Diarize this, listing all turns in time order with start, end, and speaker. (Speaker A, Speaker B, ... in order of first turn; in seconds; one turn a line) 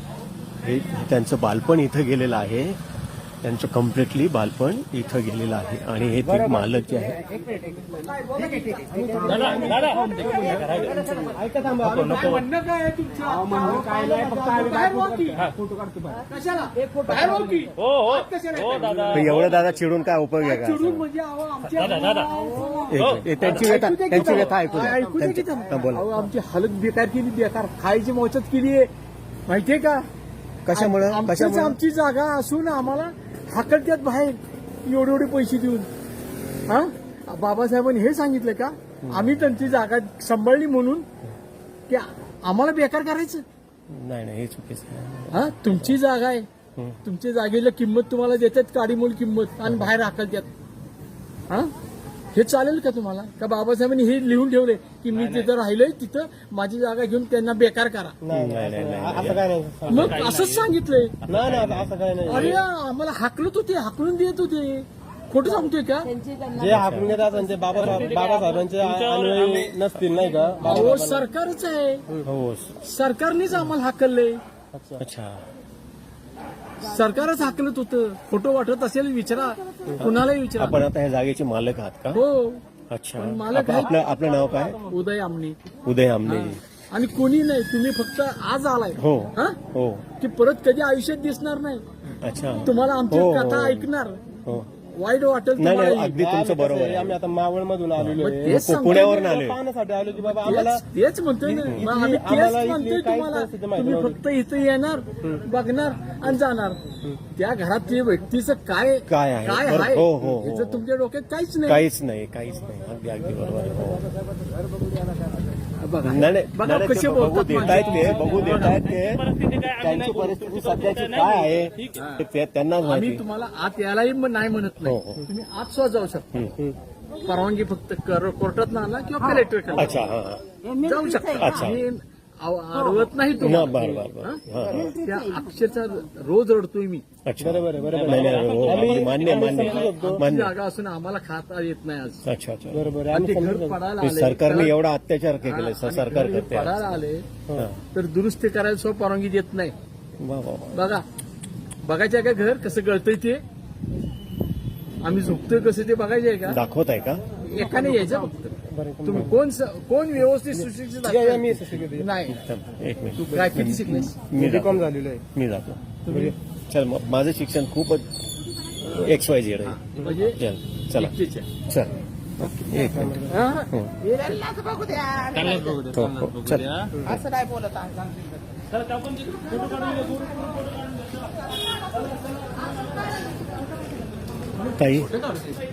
Speaker A: 0.6-2.8
Speaker A: 3.4-7.2
Speaker B: 6.2-7.8
Speaker C: 7.3-8.0
Speaker D: 8.0-11.1
Speaker C: 8.6-12.4
Speaker B: 8.8-12.4
Speaker D: 11.9-15.5
Speaker C: 13.3-16.2
Speaker B: 13.6-14.0
Speaker D: 16.2-19.4
Speaker C: 16.9-19.6
Speaker A: 19.1-21.0
Speaker D: 20.4-28.9
Speaker C: 21.7-23.8
Speaker A: 22.9-26.2
Speaker D: 29.5-30.1
Speaker A: 30.6-31.8
Speaker D: 30.7-35.9
Speaker D: 36.7-41.1
Speaker A: 39.0-39.6
Speaker D: 41.9-43.4
Speaker A: 43.9-46.0
Speaker D: 45.3-46.5
Speaker D: 47.0-50.5
Speaker D: 52.3-58.2
Speaker C: 55.1-55.5
Speaker B: 58.2-60.2
Speaker A: 58.3-59.4
Speaker C: 59.9-60.7
Speaker D: 59.9-61.2
Speaker C: 61.2-61.9
Speaker B: 61.3-62.6
Speaker D: 62.2-66.1
Speaker A: 62.3-62.6
Speaker C: 66.2-66.6
Speaker A: 66.5-67.2
Speaker B: 66.6-71.2
Speaker C: 67.3-70.5
Speaker D: 70.6-72.0
Speaker A: 72.2-72.8
Speaker D: 72.8-74.4
Speaker B: 74.7-75.0
Speaker A: 75.0-75.4
Speaker D: 76.8-80.8
Speaker A: 79.9-82.2
Speaker D: 82.1-82.6
Speaker A: 82.9-84.8
Speaker D: 83.2-85.6
Speaker A: 85.8-86.6
Speaker D: 86.2-89.6
Speaker A: 89.0-90.0
Speaker D: 90.2-92.1
Speaker A: 92.2-93.9
Speaker D: 92.6-94.2
Speaker D: 94.7-96.2
Speaker A: 95.6-97.2
Speaker B: 96.1-100.8
Speaker A: 98.0-99.6
Speaker D: 98.2-99.4
Speaker D: 100.2-106.8
Speaker B: 101.4-104.2
Speaker D: 107.3-111.8
Speaker A: 109.1-110.8
Speaker A: 111.7-114.1
Speaker D: 115.8-118.9
Speaker A: 116.0-119.2
Speaker C: 118.2-122.0
Speaker A: 119.8-123.2
Speaker D: 121.9-122.2
Speaker D: 122.8-126.3
Speaker A: 124.8-125.3
Speaker D: 127.2-130.0
Speaker A: 129.7-130.4
Speaker C: 130.6-131.4
Speaker D: 130.8-137.1
Speaker A: 131.3-131.8
Speaker A: 133.4-135.0
Speaker A: 137.2-140.5
Speaker B: 137.4-140.2
Speaker C: 137.8-139.6
Speaker D: 139.5-142.2
Speaker A: 142.2-142.8
Speaker B: 142.7-143.8
Speaker D: 143.1-144.8
Speaker A: 144.0-146.9
Speaker D: 145.4-147.3
Speaker A: 147.5-147.8
Speaker D: 147.9-149.7
Speaker A: 150.2-150.8
Speaker D: 150.7-151.0
Speaker D: 151.8-153.4
Speaker D: 155.0-156.6
Speaker A: 156.5-157.2
Speaker D: 157.4-162.5
Speaker B: 158.6-159.3
Speaker B: 161.0-162.1
Speaker A: 162.3-171.1
Speaker D: 163.2-164.2
Speaker B: 164.3-165.2
Speaker D: 165.9-166.3
Speaker D: 169.8-170.4
Speaker D: 170.9-171.5
Speaker A: 171.7-174.0
Speaker B: 172.7-173.3
Speaker D: 173.3-175.2
Speaker C: 175.1-178.1
Speaker A: 175.8-176.7
Speaker D: 177.1-177.9
Speaker C: 178.7-180.5
Speaker D: 184.7-185.6
Speaker A: 184.7-185.1